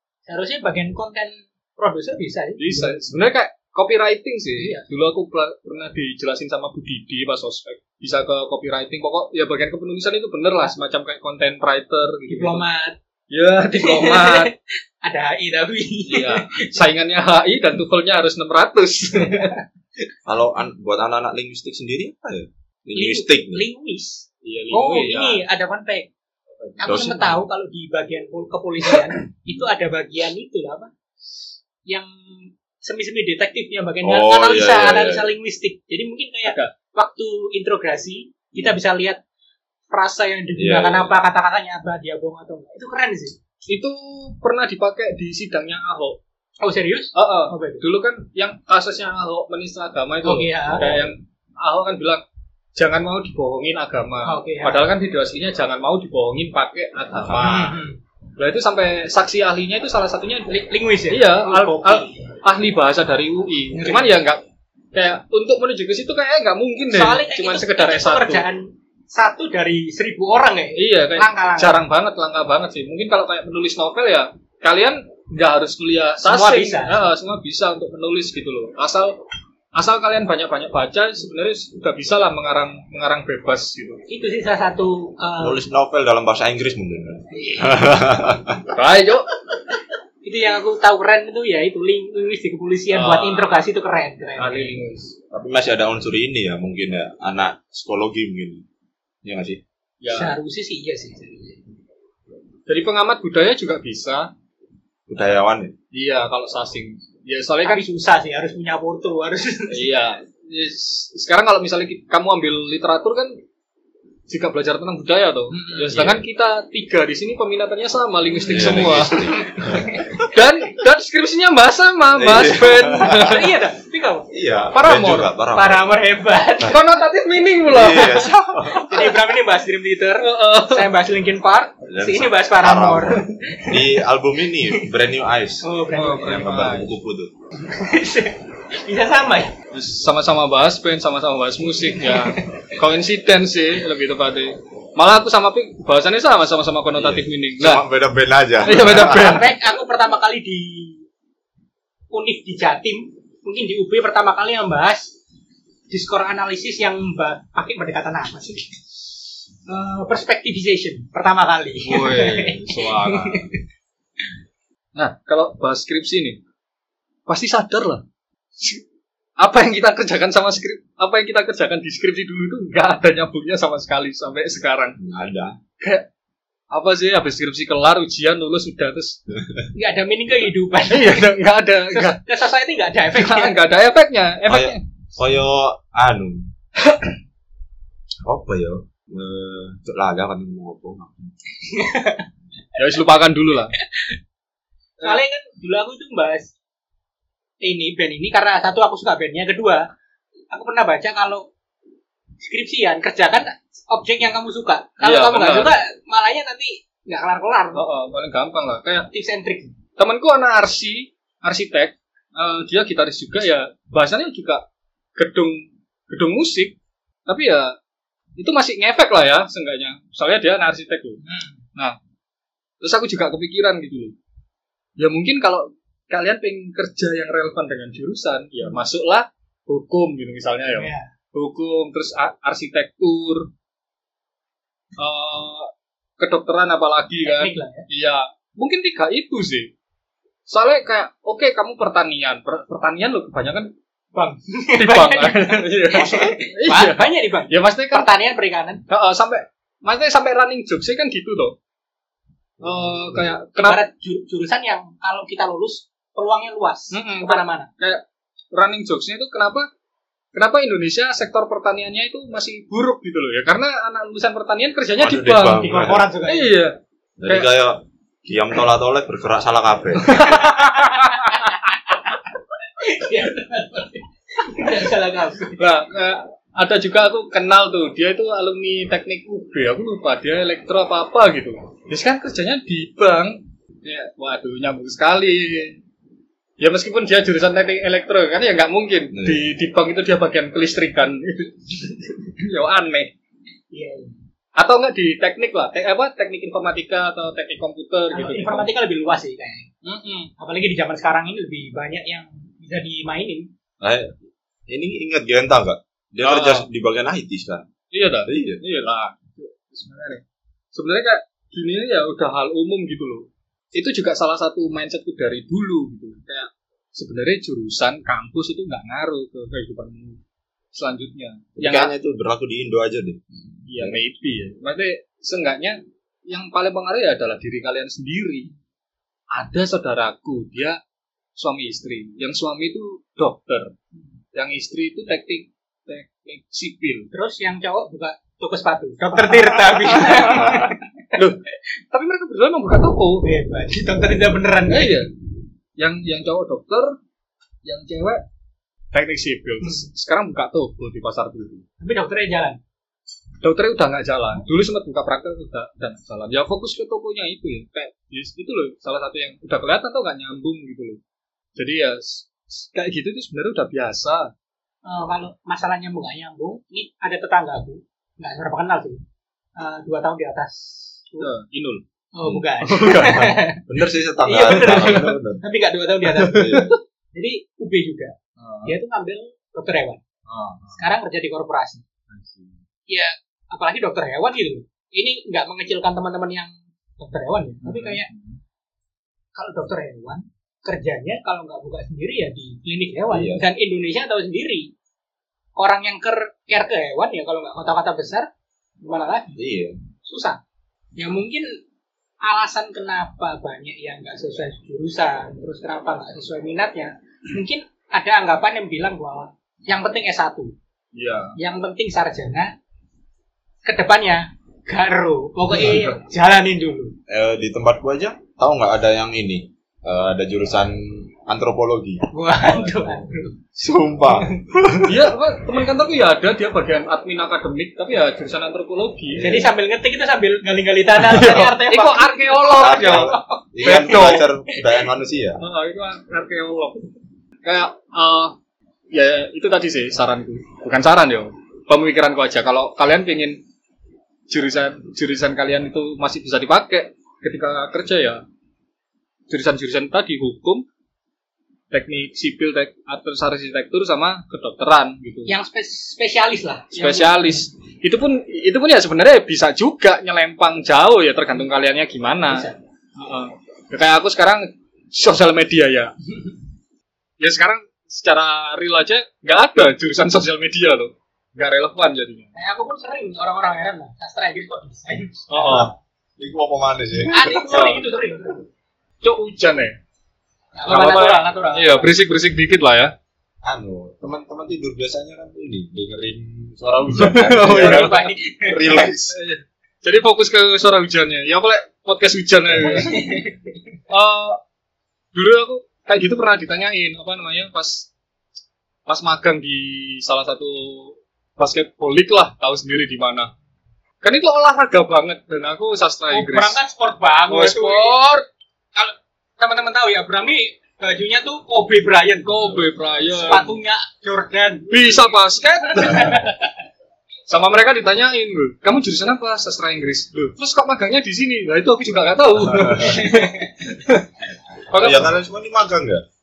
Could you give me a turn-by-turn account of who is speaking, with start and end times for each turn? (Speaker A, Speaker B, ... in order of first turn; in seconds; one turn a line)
Speaker A: 0.3-3.0
Speaker B: 2.6-12.6
Speaker A: 4.6-4.8
Speaker A: 12.3-13.0
Speaker B: 13.3-14.5
Speaker A: 13.7-16.8
Speaker B: 16.1-19.6
Speaker A: 19.2-19.6
Speaker C: 20.2-23.6
Speaker A: 22.9-26.1
Speaker B: 24.4-25.4
Speaker A: 26.8-30.9
Speaker C: 26.8-27.4
Speaker A: 32.8-39.2
Speaker C: 34.0-35.3
Speaker B: 36.5-36.7
Speaker A: 39.9-43.4
Speaker C: 40.6-41.2
Speaker B: 43.7-46.2
Speaker A: 46.6-47.8
Speaker B: 47.1-52.2
Speaker A: 50.2-50.9
Speaker C: 50.8-51.0
Speaker B: 52.7-57.8
Speaker A: 54.2-54.9
Speaker A: 57.4-58.0
Speaker B: 58.4-64.4
Speaker A: 60.5-62.2
Speaker A: 63.7-64.2
Speaker B: 64.9-68.4
Speaker A: 66.9-71.9
Speaker B: 70.8-79.2
Speaker A: 76.2-77.0
Speaker B: 79.7-84.0
Speaker A: 84.1-85.6
Speaker C: 85.4-88.7
Speaker A: 87.3-87.9
Speaker B: 88.7-89.3
Speaker A: 90.2-94.8
Speaker B: 92.9-93.6
Speaker B: 94.4-95.1
Speaker C: 95.3-98.6
Speaker C: 99.2-99.6
Speaker B: 100.0-100.4
Speaker A: 100.1-101.6
Speaker B: 102.7-104.3
Speaker C: 105.1-105.7
Speaker B: 105.9-107.8
Speaker A: 107.6-109.9
Speaker B: 109.7-113.4
Speaker B: 114.3-123.5
Speaker A: 115.5-116.1
Speaker C: 115.9-116.2
Speaker C: 118.3-120.1
Speaker A: 119.3-120.3
Speaker C: 122.1-123.4
Speaker A: 123.0-124.3
Speaker C: 124.3-126.0
Speaker B: 124.7-125.3
Speaker A: 125.5-126.8
Speaker B: 126.6-129.2
Speaker C: 127.7-128.9
Speaker A: 128.7-134.0
Speaker B: 130.2-131.0
Speaker C: 131.9-137.3
Speaker A: 135.6-136.5
Speaker B: 135.9-136.9
Speaker A: 137.6-139.5
Speaker B: 139.7-147.8
Speaker A: 142.0-142.8
Speaker C: 146.9-149.4
Speaker B: 148.6-149.5
Speaker A: 148.8-151.1
Speaker A: 152.1-155.1
Speaker A: 155.9-158.7
Speaker A: 159.7-163.6
Speaker B: 161.8-163.4
Speaker B: 164.9-166.4
Speaker B: 167.3-168.0
Speaker B: 169.4-175.0
Speaker C: 175.0-175.6
Speaker B: 175.8-176.1
Speaker B: 176.7-179.2
Speaker A: 179.7-181.3
Speaker B: 180.9-182.2
Speaker A: 181.9-183.6
Speaker B: 183.1-184.8
Speaker C: 184.5-186.5
Speaker B: 186.8-187.1
Speaker C: 188.2-191.3
Speaker A: 191.6-192.3
Speaker B: 192.8-193.8
Speaker A: 193.8-194.2
Speaker A: 195.0-196.5
Speaker A: 197.6-199.8
Speaker A: 200.5-201.4
Speaker A: 202.4-207.8
Speaker B: 205.0-205.7
Speaker B: 207.7-209.1
Speaker A: 209.1-209.7
Speaker B: 210.0-214.6
Speaker B: 215.2-216.7
Speaker B: 217.3-217.7
Speaker B: 218.4-221.2
Speaker A: 221.2-221.6
Speaker B: 222.8-224.1
Speaker B: 225.0-233.5
Speaker A: 230.7-231.1
Speaker B: 235.0-239.7
Speaker A: 237.2-237.8
Speaker B: 240.5-243.7
Speaker A: 244.1-248.8
Speaker B: 244.7-248.1
Speaker B: 248.9-251.5
Speaker B: 252.6-253.8
Speaker A: 253.6-257.7
Speaker B: 256.9-259.7
Speaker B: 260.3-266.7
Speaker C: 264.9-266.0
Speaker A: 265.5-266.5
Speaker C: 267.2-270.3
Speaker B: 270.0-271.5
Speaker A: 270.2-272.1
Speaker A: 272.8-275.6
Speaker B: 275.6-285.8
Speaker B: 286.6-293.1
Speaker C: 289.1-289.4
Speaker A: 293.7-294.1
Speaker B: 294.6-298.7
Speaker A: 298.1-303.5
Speaker B: 299.9-300.3
Speaker C: 303.8-304.2
Speaker C: 304.7-307.6
Speaker B: 306.2-306.7
Speaker B: 307.9-310.2
Speaker C: 308.2-308.6
Speaker B: 310.7-320.2
Speaker B: 320.7-321.9
Speaker C: 321.6-323.2
Speaker B: 323.7-328.5
Speaker B: 329.3-330.8
Speaker B: 331.4-333.7
Speaker B: 334.3-337.1
Speaker A: 337.1-341.2
Speaker B: 339.8-343.3
Speaker A: 343.2-345.0
Speaker B: 344.7-345.1
Speaker B: 345.8-346.9
Speaker B: 347.6-348.2
Speaker B: 348.9-351.6
Speaker A: 351.8-352.6
Speaker B: 353.4-361.0
Speaker B: 361.6-364.3
Speaker A: 364.8-369.0
Speaker A: 369.6-371.3
Speaker B: 371.2-371.8
Speaker A: 372.1-373.6
Speaker B: 372.7-373.4
Speaker C: 372.9-375.4
Speaker A: 374.2-380.0
Speaker B: 374.5-375.1
Speaker B: 376.2-376.7
Speaker C: 376.3-376.7
Speaker B: 380.3-380.6
Speaker C: 380.4-380.7
Speaker A: 380.7-381.8
Speaker B: 382.1-382.5
Speaker A: 382.9-388.1
Speaker B: 387.7-387.9
Speaker A: 389.3-394.7
Speaker C: 393.1-393.4
Speaker A: 395.6-398.3
Speaker A: 398.8-399.4
Speaker C: 399.3-399.8
Speaker A: 400.0-400.4
Speaker A: 401.0-401.6
Speaker A: 402.2-410.5
Speaker B: 410.9-411.4
Speaker A: 411.4-412.5
Speaker A: 413.6-416.9
Speaker B: 415.6-415.9
Speaker C: 417.1-422.0
Speaker A: 422.1-423.4
Speaker C: 423.5-425.1
Speaker B: 424.8-429.3
Speaker C: 429.2-429.5
Speaker A: 429.2-433.4
Speaker B: 431.0-434.3
Speaker C: 432.5-435.4
Speaker B: 435.4-436.9
Speaker B: 437.4-438.3
Speaker B: 438.9-443.4
Speaker B: 444.3-448.2
Speaker B: 449.3-450.6
Speaker B: 451.7-455.3
Speaker A: 455.2-457.2
Speaker B: 456.7-462.5
Speaker A: 462.3-462.6
Speaker B: 463.0-466.1
Speaker B: 467.2-472.3
Speaker A: 472.4-475.7
Speaker B: 475.3-475.7
Speaker C: 476.2-477.7
Speaker A: 477.1-478.4
Speaker B: 477.5-477.8
Speaker B: 479.0-479.8
Speaker A: 480.6-481.9
Speaker B: 480.7-482.9
Speaker C: 483.4-489.1
Speaker B: 487.0-488.0
Speaker A: 487.4-488.6
Speaker B: 488.6-493.0
Speaker A: 492.7-493.6
Speaker B: 493.9-494.4
Speaker B: 495.1-497.9
Speaker B: 498.9-503.3
Speaker B: 504.0-506.6
Speaker A: 506.1-508.0
Speaker B: 507.3-508.2
Speaker A: 508.7-512.4
Speaker B: 512.2-513.5
Speaker A: 513.1-515.0
Speaker B: 514.7-516.3
Speaker A: 515.7-516.4
Speaker B: 517.3-525.2
Speaker C: 522.5-523.0
Speaker A: 522.8-523.5
Speaker C: 524.7-526.0